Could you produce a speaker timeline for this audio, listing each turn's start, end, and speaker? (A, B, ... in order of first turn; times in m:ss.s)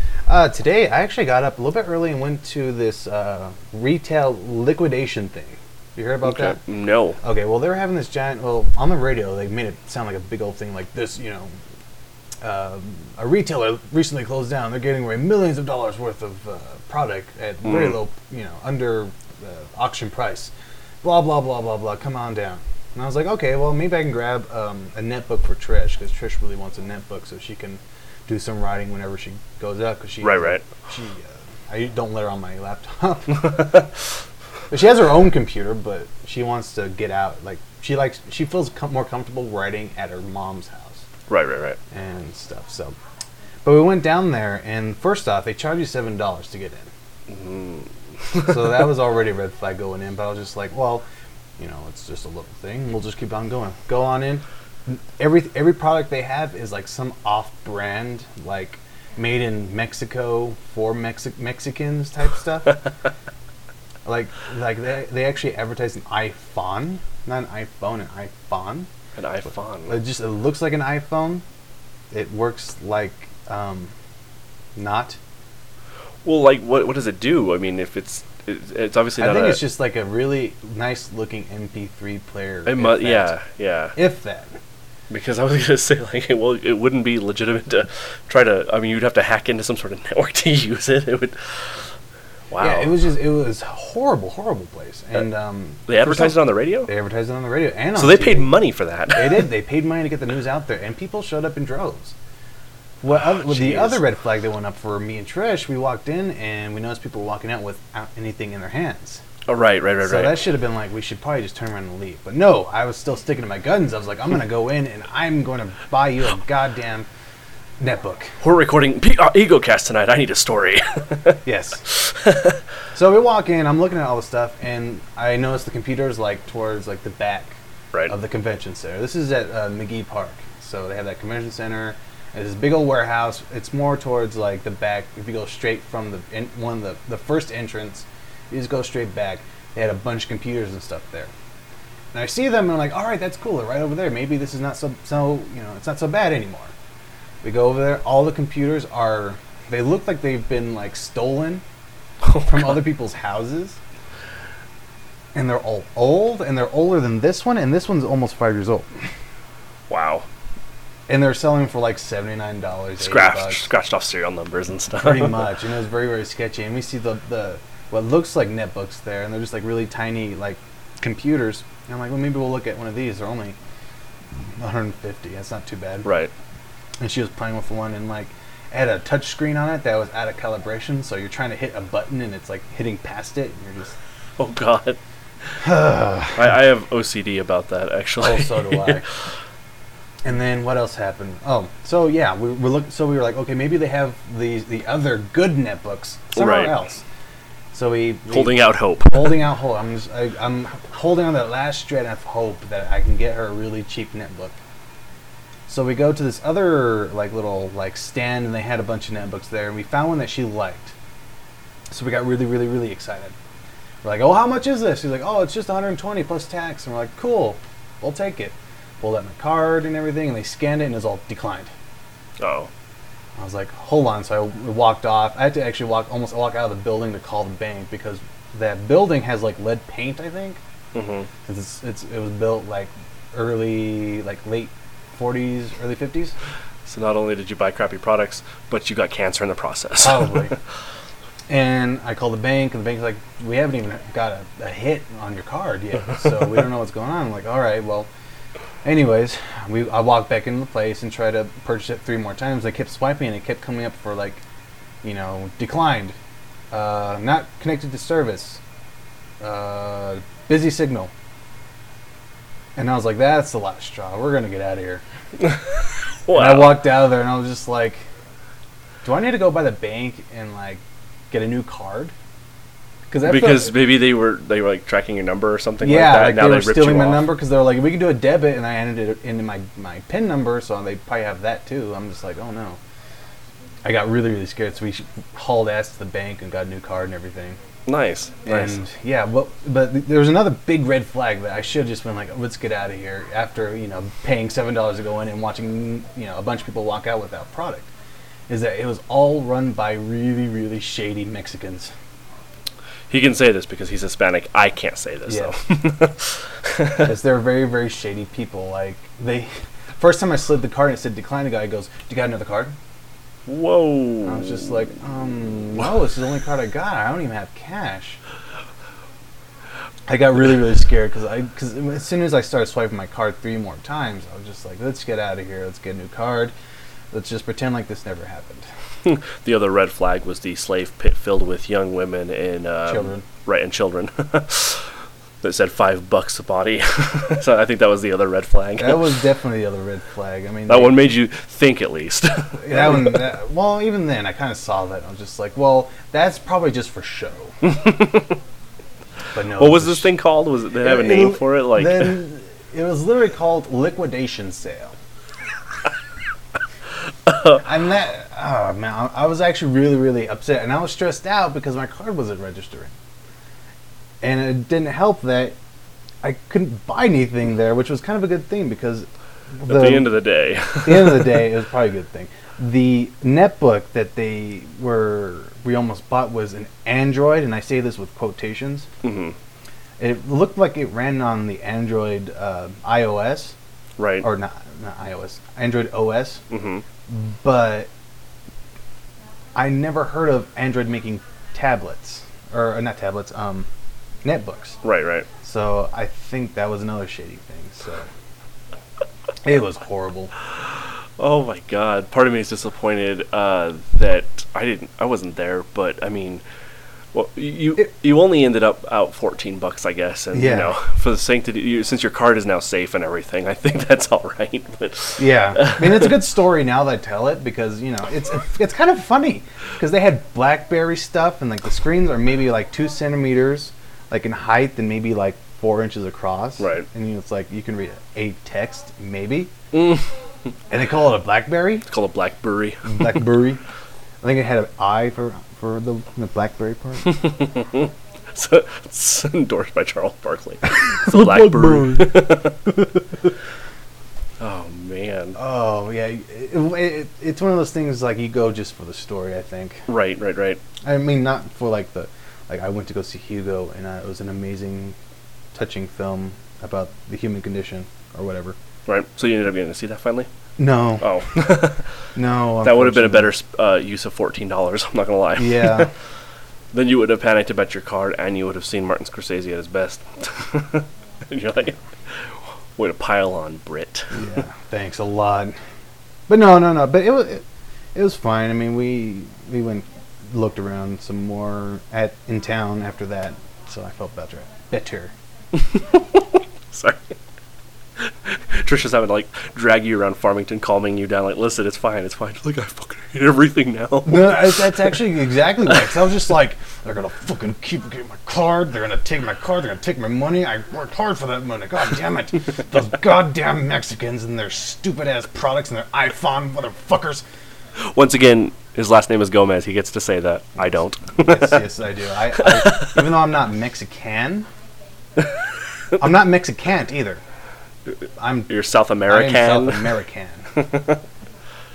0:00.3-0:06.6 A
0:06.2-0:07.2 B
0:07.2-0:11.5 A
0:12.4-0:33.9 A
0:17.6-0:18.0 B
0:30.2-0:30.6 B
0:34.7-0:41.0 A
0:41.3-0:41.8 B
0:41.9-0:43.0 A
0:43.6-0:46.9 A
0:47.3-0:48.9 B
0:48.5-0:51.0 A
0:51.6-1:02.8 A
1:04.1-1:08.9 A
1:09.2-1:10.0 B
1:09.9-1:11.4 A
1:12.1-1:13.9 A
1:14.8-1:15.2 A
1:16.2-1:19.6 B
1:19.2-1:23.3 A
1:22.7-1:24.0 B
1:24.0-1:24.6 A
1:25.1-1:31.7 B
1:32.5-1:32.9 B
1:32.6-1:38.5 A
1:35.9-1:36.9 B
1:38.0-1:39.5 B
1:39.2-1:42.2 A
1:43.0-1:49.2 A
1:43.1-1:44.0 B
1:49.5-1:50.4 B
1:50.0-1:57.1 A
1:57.8-1:58.4 A
1:58.4-2:02.6 B
2:01.4-2:01.8 A
2:02.9-2:21.3 A
2:22.1-2:26.7 A
2:27.4-2:31.6 A
2:32.2-2:32.8 B
2:32.4-2:33.8 A
2:35.3-2:38.9 A
2:39.9-2:40.3 B
2:41.1-2:43.7 A
2:43.0-2:45.5 B
2:45.0-2:53.6 A
2:54.6-2:56.1 A
2:56.0-2:56.3 B
2:57.0-3:04.0 A
3:04.4-3:05.0 B
3:05.6-3:06.5 A
3:06.4-3:09.0 B
3:08.2-3:09.0 A
3:10.2-3:17.0 A
3:16.4-3:16.8 B
3:17.7-3:24.6 A
3:18.3-3:19.4 B
3:25.7-3:31.0 A
3:31.9-3:33.4 A
3:34.0-3:41.7 A
3:42.4-3:42.7 B
3:43.4-3:50.6 A
3:50.9-3:51.3 B
3:51.5-3:56.4 A
3:56.9-4:00.5 B
4:00.0-4:00.5 A
4:01.5-4:08.1 A
4:08.8-4:14.4 A
4:15.0-4:16.2 A
4:16.7-4:18.6 A
4:19.4-4:21.1 A
4:22.8-4:25.0 A
4:25.4-4:26.8 B
4:26.3-4:28.1 A
4:29.0-4:32.1 A
4:33.1-4:33.8 A
4:33.2-4:37.3 B
4:35.8-4:42.8 A
4:43.8-4:47.6 A
4:47.9-4:48.8 B
4:48.5-4:57.9 A
4:58.5-5:01.9 A
5:03.1-5:07.1 B
5:05.3-5:05.5 A
5:07.0-5:12.8 A
5:13.5-5:14.6 B
5:14.3-5:18.2 A
5:20.1-5:26.5 A
5:27.1-5:28.7 A
5:29.0-5:34.9 B
5:32.9-5:33.3 A
5:35.4-5:39.2 B
5:38.8-5:41.0 A
5:40.7-5:43.2 B
5:42.6-5:47.6 A
5:47.6-5:48.4 B
5:49.3-5:50.1 A
5:49.6-5:52.2 B
5:50.8-5:55.0 A
5:57.3-5:57.6 B
5:57.6-6:02.9 A
6:04.2-6:05.6 A
6:06.2-6:10.1 A
6:09.7-6:11.5 B
6:10.8-6:18.9 A
6:19.0-6:19.4 B
6:20.0-6:23.6 A
6:24.0-6:24.3 B
6:24.2-6:26.4 A
6:26.5-6:26.8 B
6:27.1-6:27.9 A
6:29.6-6:33.7 A
6:34.2-6:34.8 A
6:34.8-6:35.3 B
6:35.4-6:38.1 A
6:39.4-6:40.3 A
6:41.2-6:46.4 B
6:47.1-6:56.2 B
6:50.3-6:50.7 A
6:55.2-7:09.5 A
7:06.6-7:06.9 B
7:09.7-7:10.1 B
7:10.7-7:11.9 A
7:11.9-7:13.2 B
7:12.8-7:13.6 A
7:14.2-7:17.3 A
7:17.0-7:22.7 B
7:21.0-7:22.2 A
7:24.4-7:25.4 B
7:25.4-7:29.9 A
7:29.9-7:30.6 B
7:30.8-7:35.0 A
7:35.5-7:38.6 A
7:38.9-7:40.3 B
7:40.6-7:41.0 A
7:41.0-7:41.9 B
7:42.2-7:43.3 A
7:42.6-7:45.9 B
7:45.4-7:45.9 A
7:46.7-7:54.4 B
7:54.1-7:55.6 A
7:56.3-8:05.1 A
8:05.5-8:07.1 B
8:08.0-8:15.0 B
8:14.0-8:27.2 A
8:27.8-8:31.7 B
8:31.2-8:34.5 A
8:32.4-8:33.0 B
8:36.0-8:37.2 A
8:38.2-8:38.5 A
8:38.5-8:40.0 B
8:39.1-8:40.5 A
8:40.5-8:41.0 B